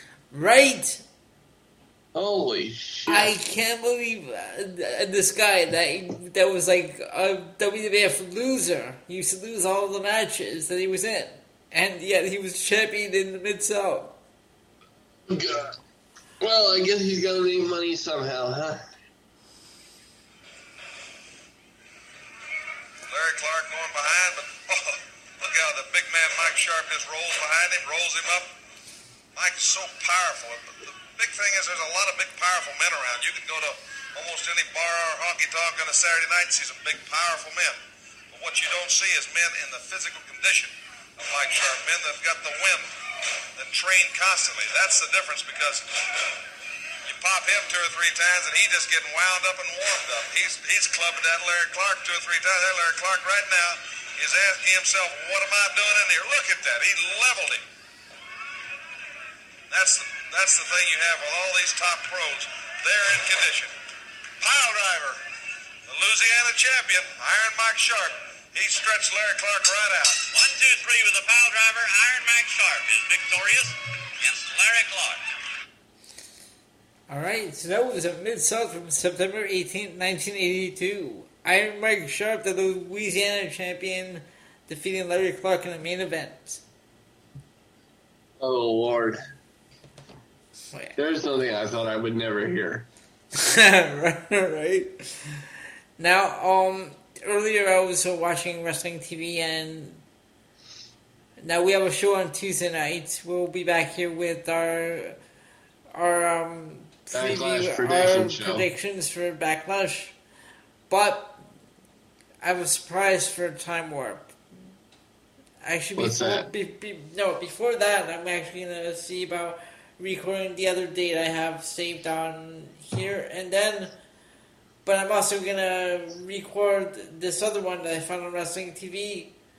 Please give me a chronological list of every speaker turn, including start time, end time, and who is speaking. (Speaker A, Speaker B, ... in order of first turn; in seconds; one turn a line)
Speaker A: 0.3-1.0
Speaker B: 2.1-3.3
Speaker A: 3.1-14.2
Speaker B: 15.3-15.7
Speaker B: 16.4-18.8
Speaker C: 23.1-28.5
Speaker C: 29.3-42.9
Speaker C: 43.5-45.8
Speaker C: 47.0-57.6
Speaker C: 59.7-63.7
Speaker C: 64.4-65.2
Speaker C: 65.9-70.2
Speaker D: 70.3-75.2
Speaker A: 77.1-86.6
Speaker B: 88.4-89.2
Speaker B: 91.0-92.9
Speaker A: 93.3-95.4
Speaker A: 96.0-100.0
Speaker A: 101.4-105.2
Speaker A: 105.9-110.1
Speaker B: 107.1-108.7
Speaker A: 110.9-111.4
Speaker A: 112.4-114.3
Speaker A: 115.6-123.9
Speaker B: 116.0-116.5
Speaker A: 124.8-129.3